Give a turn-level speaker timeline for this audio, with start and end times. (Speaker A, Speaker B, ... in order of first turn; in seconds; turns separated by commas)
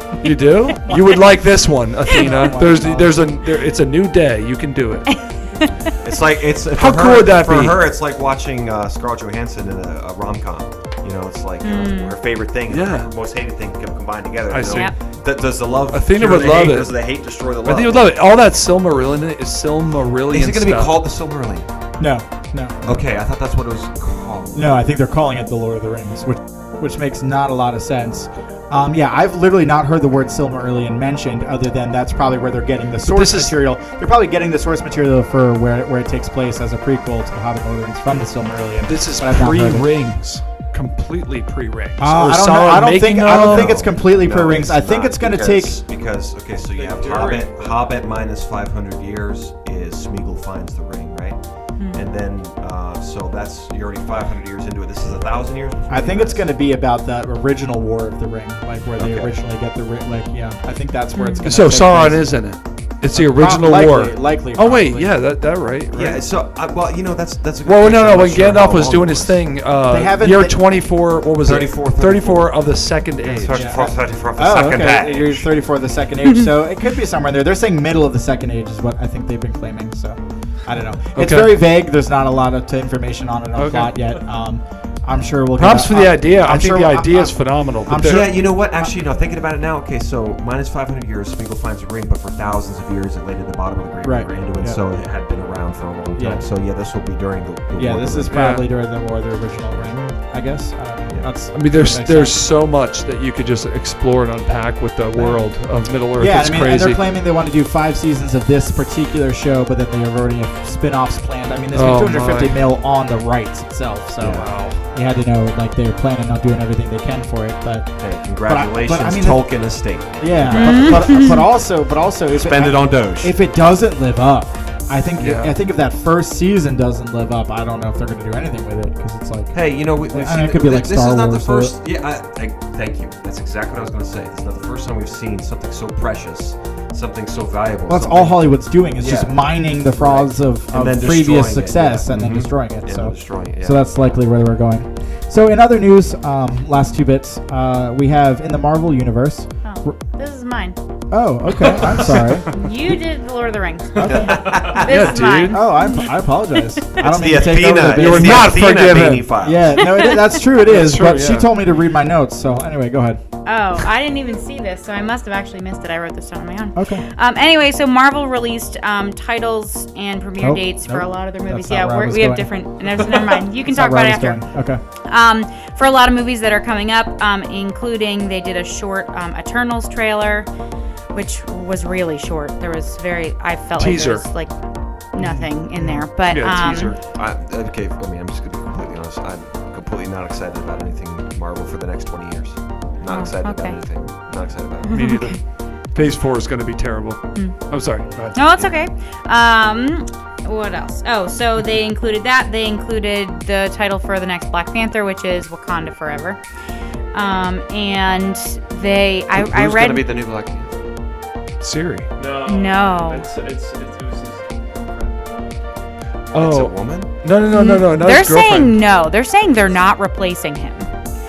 Speaker A: 0.2-5.1, Speaker B: 2.1-3.2, Speaker C: 2.1-2.5, Speaker C: 5.1-5.7, Speaker D: 6.0-18.2, Speaker A: 6.7-7.8, Speaker C: 11.6-12.1, Speaker A: 12.7-13.1, Speaker A: 14.5-14.9, Speaker C: 14.7-15.0, Speaker A: 15.9-21.0, Speaker D: 20.3-21.7, Speaker B: 22.0-23.0, Speaker D: 22.9-24.7, Speaker B: 24.6-39.9, Speaker A: 33.0-33.6, Speaker A: 38.9-43.8, Speaker B: 42.0-45.8, Speaker D: 43.4-56.5, Speaker E: 46.7-48.0, Speaker C: 51.8-52.0, Speaker B: 55.9-62.5, Speaker D: 59.0-59.4, Speaker C: 61.2-61.5, Speaker A: 61.4-66.2, Speaker B: 63.1-65.2, Speaker D: 65.9-69.5, Speaker A: 67.6-74.0, Speaker B: 69.9-70.6, Speaker D: 71.4-72.7, Speaker D: 73.2-75.5, Speaker B: 73.5-88.9, Speaker A: 81.2-81.6, Speaker A: 83.6-83.9, Speaker A: 85.6-88.3, Speaker D: 88.0-98.3, Speaker B: 94.0-94.8, Speaker B: 96.2-96.5, Speaker B: 97.8-102.4, Speaker A: 98.3-98.7, Speaker A: 101.5-107.0, Speaker B: 105.2-105.5, Speaker B: 106.1-131.8, Speaker A: 111.7-112.7, Speaker D: 114.2-114.5, Speaker A: 114.2-114.8, Speaker D: 118.0-121.4, Speaker C: 120.5-121.4, Speaker D: 122.3-123.4, Speaker A: 125.2-125.5, Speaker D: 129.5-143.8, Speaker B: 137.9-150.0, Speaker A: 142.1-142.5, Speaker C: 149.6-150.8, Speaker B: 151.1-152.5, Speaker A: 151.7-152.5, Speaker C: 152.5-156.0, Speaker B: 154.0-154.7, Speaker D: 154.0-155.2, Speaker A: 154.7-155.7, Speaker B: 155.5-158.6, Speaker D: 157.0-159.8, Speaker A: 157.8-159.3, Speaker B: 159.4-163.2, Speaker A: 160.6-161.5, Speaker C: 163.4-174.4, Speaker B: 166.8-167.1, Speaker B: 170.4-173.0, Speaker B: 173.7-174.8, Speaker C: 175.1-180.5, Speaker C: 181.1-184.6, Speaker A: 183.8-184.3, Speaker C: 185.1-186.9, Speaker B: 185.2-186.1, Speaker A: 186.3-186.9, Speaker D: 186.3-195.0, Speaker C: 193.1-193.8, Speaker A: 194.9-198.7, Speaker C: 194.9-195.4, Speaker C: 197.3-197.7, Speaker C: 198.3-206.4, Speaker C: 207.1-210.0, Speaker D: 209.3-210.7, Speaker A: 211.6-212.1, Speaker E: 212.2-215.6, Speaker C: 212.4-213.3, Speaker D: 216.3-217.1, Speaker A: 216.3-218.8, Speaker C: 217.5-220.9